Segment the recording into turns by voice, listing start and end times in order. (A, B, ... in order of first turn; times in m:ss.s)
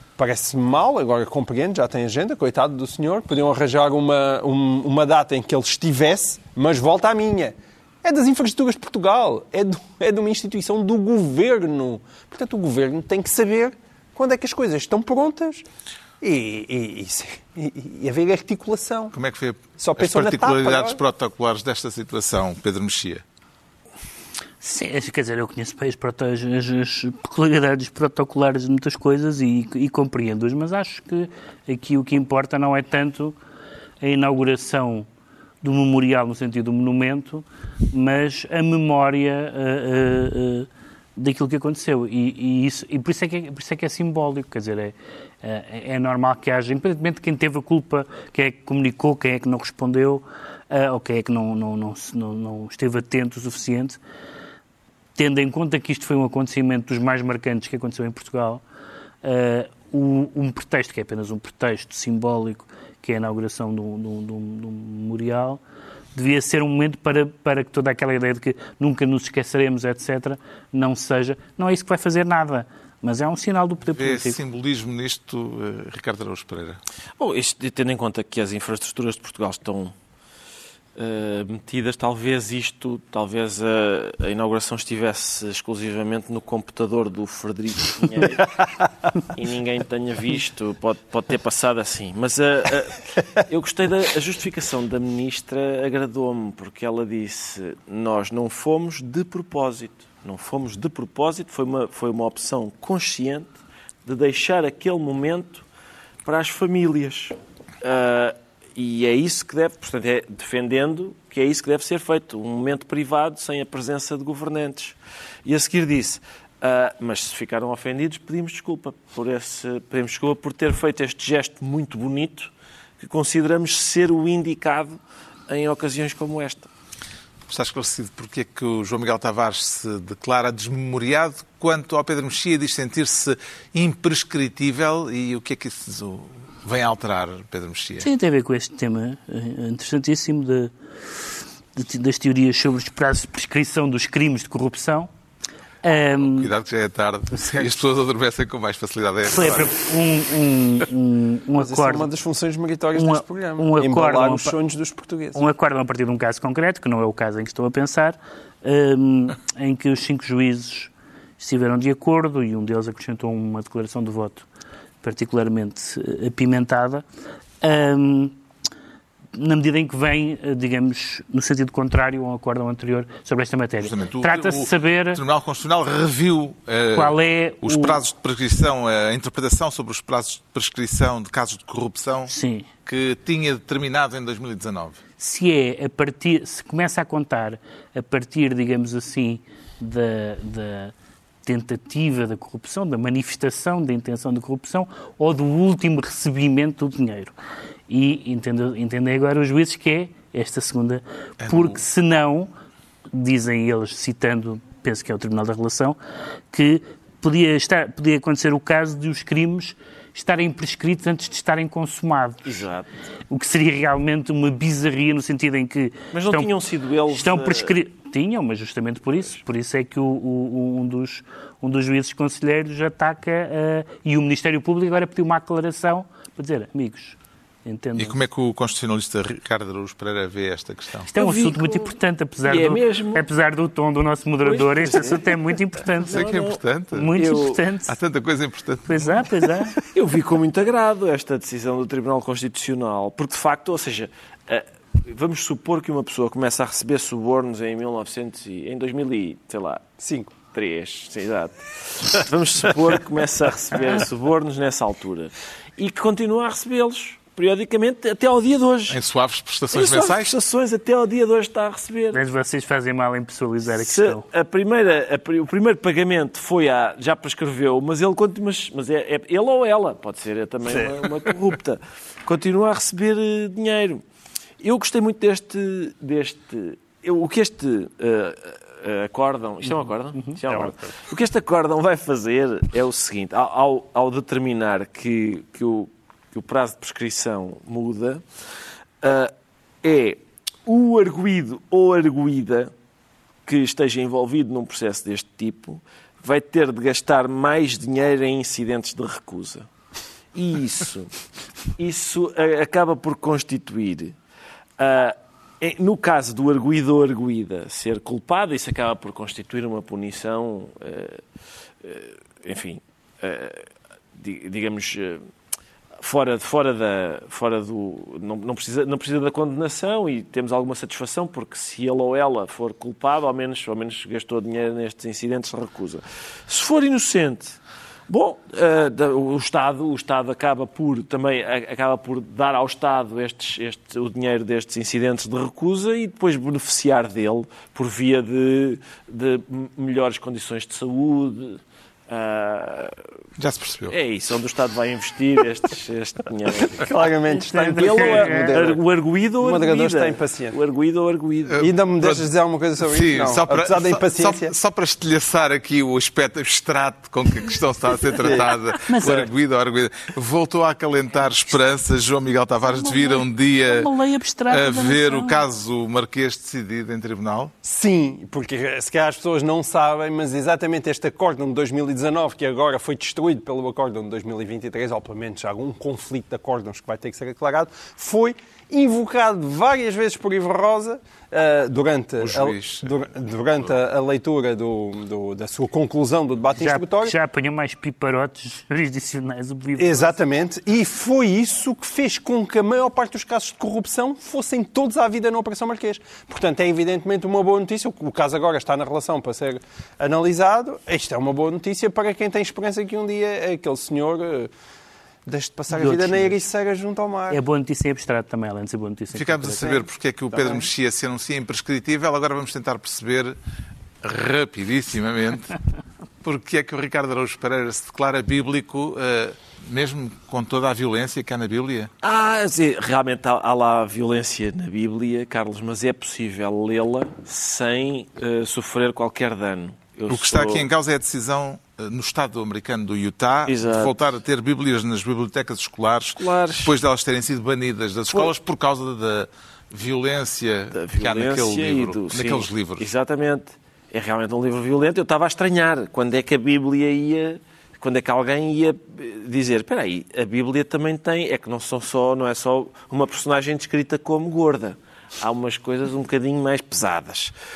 0:00.2-0:15.6 A
0:16.2-0:19.1 A
0:19.1-0:23.2 B
0:19.8-0:21.0 A
0:24.6-0:33.4 C
0:34.0-0:35.1 C
0:35.6-0:54.0 C
0:55.2-0:58.6 C
0:59.2-1:05.6 C
1:06.1-1:14.4 C
1:13.8-1:16.8 B
1:17.2-1:19.9 D
1:21.0-1:28.6 D
1:29.2-1:43.5 D
1:44.0-1:45.6 D
1:46.2-2:05.0 D
2:05.5-2:06.7 D
2:07.5-2:18.1 B
2:18.0-2:20.7 C
2:21.8-2:25.1 C
2:25.8-2:26.5 C
2:26.2-2:29.8 B
2:29.3-2:32.1 C
2:31.6-2:35.4 A
2:33.0-2:34.6 C
2:35.4-2:44.4 C
2:45.0-2:47.0 C
2:47.6-2:48.4 C
2:49.4-2:55.2 C
2:53.8-3:02.3 B
2:57.0-2:58.0 C
3:02.3-3:02.7 C
3:02.8-3:05.0 B
3:05.2-3:10.9 C
3:11.4-3:17.3 C
3:17.9-3:22.5 C
3:21.4-3:21.8 B
3:23.1-3:26.0 C
3:26.5-3:32.6 C
3:32.4-3:32.9 D
3:33.3-3:36.5 C
3:36.1-3:37.8 D
3:37.1-3:48.2 C
3:48.0-3:51.1 B
3:51.1-3:53.3 D
3:51.2-3:58.0 C
3:54.4-3:56.6 D
3:56.0-3:57.2 B
3:57.1-3:57.6 D
3:57.9-3:59.3 B
3:58.9-3:59.8 C
3:59.8-4:09.8 D
4:10.0-4:10.3 A
4:10.4-4:19.0 D
4:18.9-4:20.4 B
4:19.7-4:22.2 D
4:22.1-4:24.2 C
4:23.7-4:34.0 D
4:30.7-4:31.1 A
4:34.6-4:48.2 D
4:40.5-4:40.9 A
4:49.0-4:52.7 D
4:53.5-4:59.7 D
5:00.3-5:01.2 D
5:01.8-5:04.2 D
5:04.8-5:11.2 D
5:11.8-5:15.3 D
5:16.0-5:43.0 D
5:43.4-5:44.0 B
5:43.9-5:51.6 D
5:46.7-5:48.8 A
5:47.8-5:48.5 C
5:49.4-5:50.6 A
5:51.5-5:52.3 B
5:51.6-5:54.5 A
5:52.8-6:03.9 B
5:58.2-5:58.5 A
5:58.8-5:59.3 C
6:02.8-6:05.4 C
6:04.5-6:07.5 B
6:07.6-6:27.2 A
6:22.2-6:23.0 B
6:26.6-6:30.1 C
6:29.8-6:44.5 A
6:45.2-6:47.4 A
6:45.7-6:46.4 C
6:47.3-6:49.8 C
6:49.1-6:53.4 B
6:50.3-6:50.7 A
6:54.0-6:55.5 B
6:56.2-7:01.9 B
7:02.0-7:10.7 D
7:10.1-7:22.9 B
7:13.5-7:13.9 D
7:16.2-7:16.7 D
7:20.7-7:37.3 D